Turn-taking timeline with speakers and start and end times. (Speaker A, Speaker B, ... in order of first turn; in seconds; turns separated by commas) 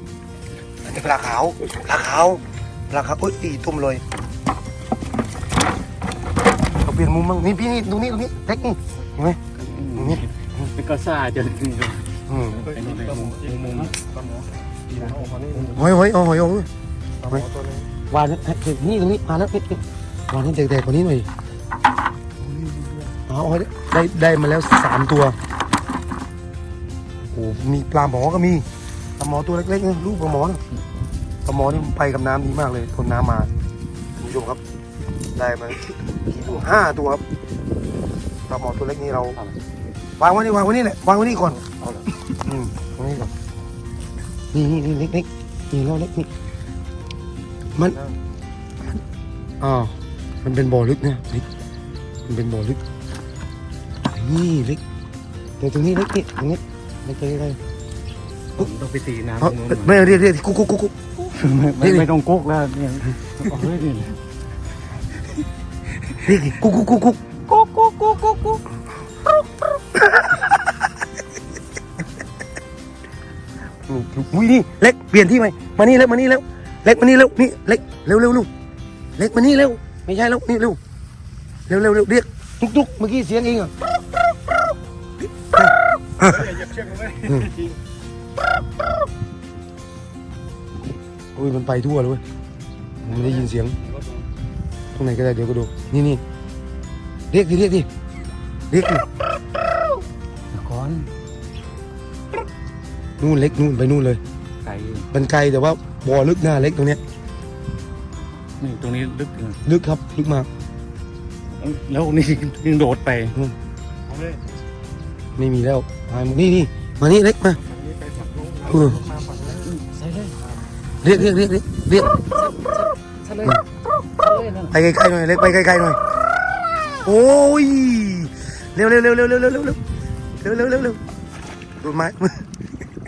Speaker A: 0.8-4.0, Speaker A: 6.8-9.4, Speaker B: 9.5-13.9, Speaker A: 9.9-10.7, Speaker A: 12.3-12.6, Speaker C: 14.0-15.6, Speaker B: 14.9-15.9, Speaker A: 15.7-16.7, Speaker C: 17.2-17.9, Speaker A: 18.1-21.3, Speaker A: 23.1-25.4, Speaker A: 27.3-28.6, Speaker A: 29.2-30.6, Speaker A: 31.4-33.5, Speaker A: 34.2-34.6, Speaker A: 35.4-37.2, Speaker A: 38.5-39.4, Speaker A: 40.2-41.6, Speaker A: 42.4-43.3, Speaker A: 44.5-46.3, Speaker A: 49.6-51.5, Speaker A: 52.3-52.8, Speaker A: 54.0-54.8, Speaker A: 55.6-57.6, Speaker B: 58.5-60.1, Speaker A: 59.4-60.9, Speaker B: 61.3-64.2, Speaker A: 61.8-62.1, Speaker A: 66.2-67.2, Speaker B: 67.5-68.6, Speaker A: 69.9-70.7, Speaker A: 73.8-78.5, Speaker A: 79.2-80.8, Speaker A: 81.7-83.7, Speaker A: 85.4-86.6, Speaker A: 87.2-87.5, Speaker A: 91.3-92.2, Speaker A: 93.0-93.8, Speaker A: 94.9-96.2, Speaker A: 97.3-97.9, Speaker A: 98.7-99.0, Speaker B: 100.5-101.1, Speaker A: 103.2-104.2, Speaker B: 104.6-105.1, Speaker A: 105.1-107.0, Speaker B: 108.6-109.6, Speaker A: 109.6-110.5, Speaker B: 111.6-113.4, Speaker C: 114.1-114.4, Speaker A: 115.3-117.6, Speaker C: 117.6-119.7, Speaker A: 118.7-119.0, Speaker B: 119.7-120.3, Speaker A: 121.0-122.2, Speaker B: 122.0-123.6, Speaker B: 124.2-124.7, Speaker A: 124.7-126.0, Speaker A: 127.0-129.8, Speaker A: 130.4-131.0, Speaker A: 131.8-132.4